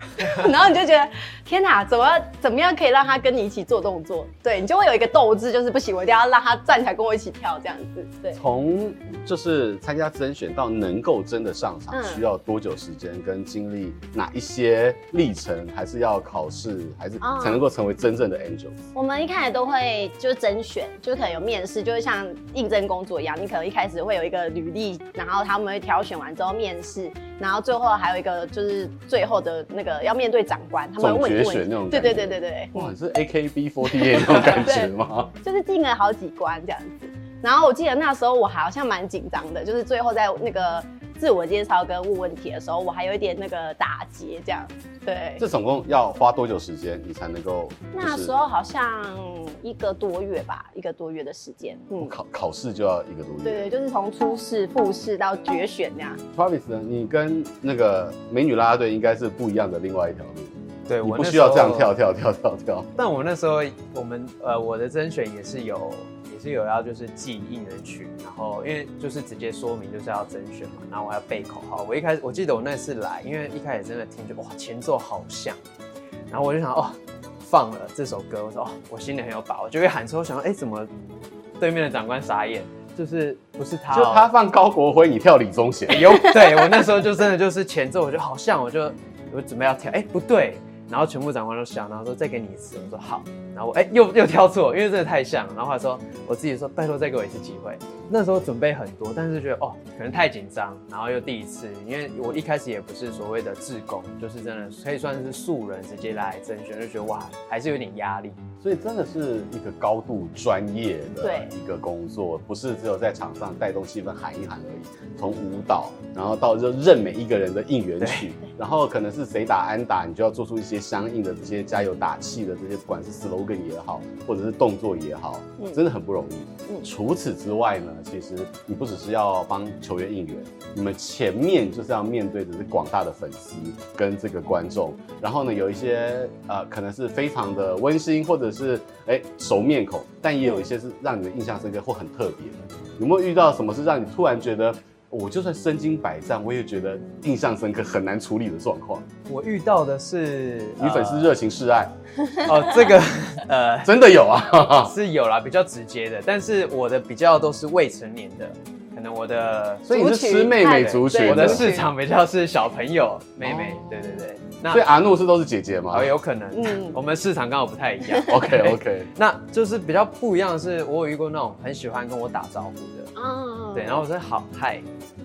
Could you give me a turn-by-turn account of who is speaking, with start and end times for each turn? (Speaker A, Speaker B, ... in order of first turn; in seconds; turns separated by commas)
Speaker A: 0.1-8.4, Speaker B: 8.3-18.8, Speaker A: 11.9-12.2, Speaker A: 17.2-17.6, Speaker A: 18.9-32.9, Speaker B: 31.0-35.3, Speaker A: 34.0-34.9, Speaker A: 35.4-45.4, Speaker B: 45.4-48.3, Speaker A: 47.9-52.1, Speaker B: 52.0-53.6, Speaker A: 53.4-56.2, Speaker B: 56.3-62.9, Speaker C: 60.9-61.9, Speaker C: 63.0-75.6, Speaker C: 76.3-80.9, Speaker C: 81.6-84.3, Speaker B: 83.9-86.3, Speaker C: 85.9-108.4, Speaker B: 108.6-149.1, Speaker A: 111.2-111.5, Speaker C: 118.0-118.3, Speaker C: 149.3-151.3, Speaker B: 150.8-151.9, Speaker C: 152.4-154.1, Speaker B: 153.8-154.9, Speaker C: 154.8-159.9, Speaker B: 159.9-161.7, Speaker A: 159.9-161.9, Speaker C: 161.2-164.9, Speaker B: 163.4-163.8, Speaker B: 164.7-166.1, Speaker C: 165.9-173.1, Speaker A: 166.5-167.0, Speaker B: 168.3-169.1, Speaker A: 173.2-174.1, Speaker C: 173.7-174.9